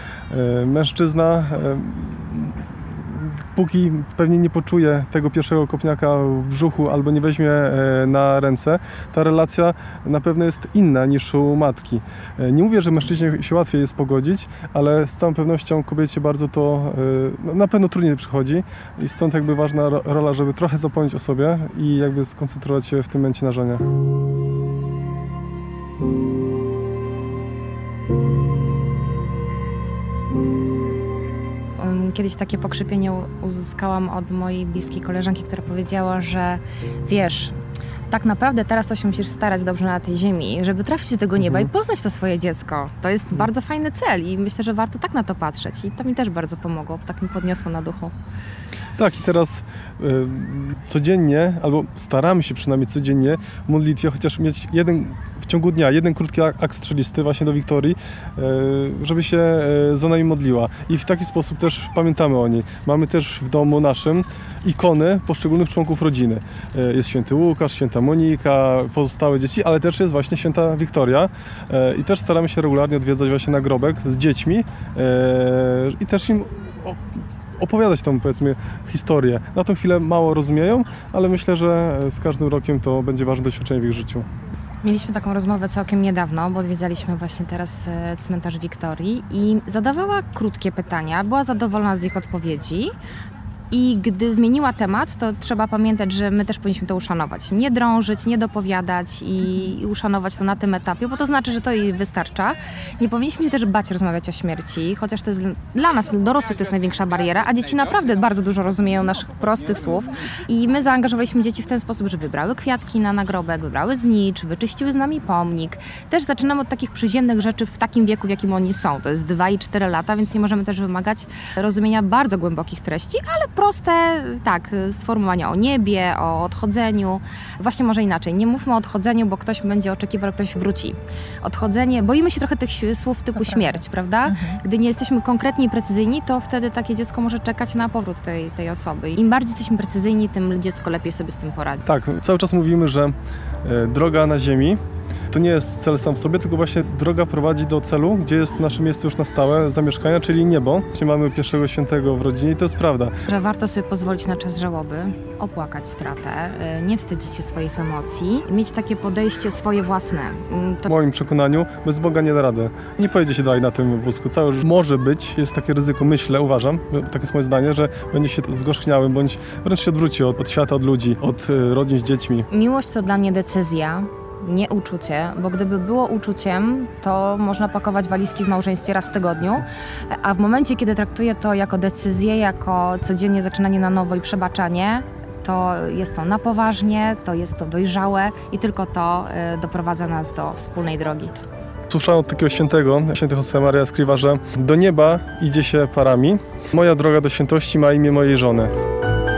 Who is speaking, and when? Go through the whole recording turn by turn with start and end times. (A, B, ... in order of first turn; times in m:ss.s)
0:00.3-0:23.8 A
0:31.8-0:37.6 B
0:38.1-0:48.1 B
0:41.4-0:41.7 A
0:49.0-1:17.0 A
1:17.6-1:24.2 A
1:24.8-1:32.9 B
1:33.7-2:21.8 B
2:21.8-2:24.8 A
2:25.3-2:33.1 A
2:33.2-2:40.9 B
2:40.9-2:52.5 A
2:52.5-3:11.3 B
3:11.9-3:18.7 A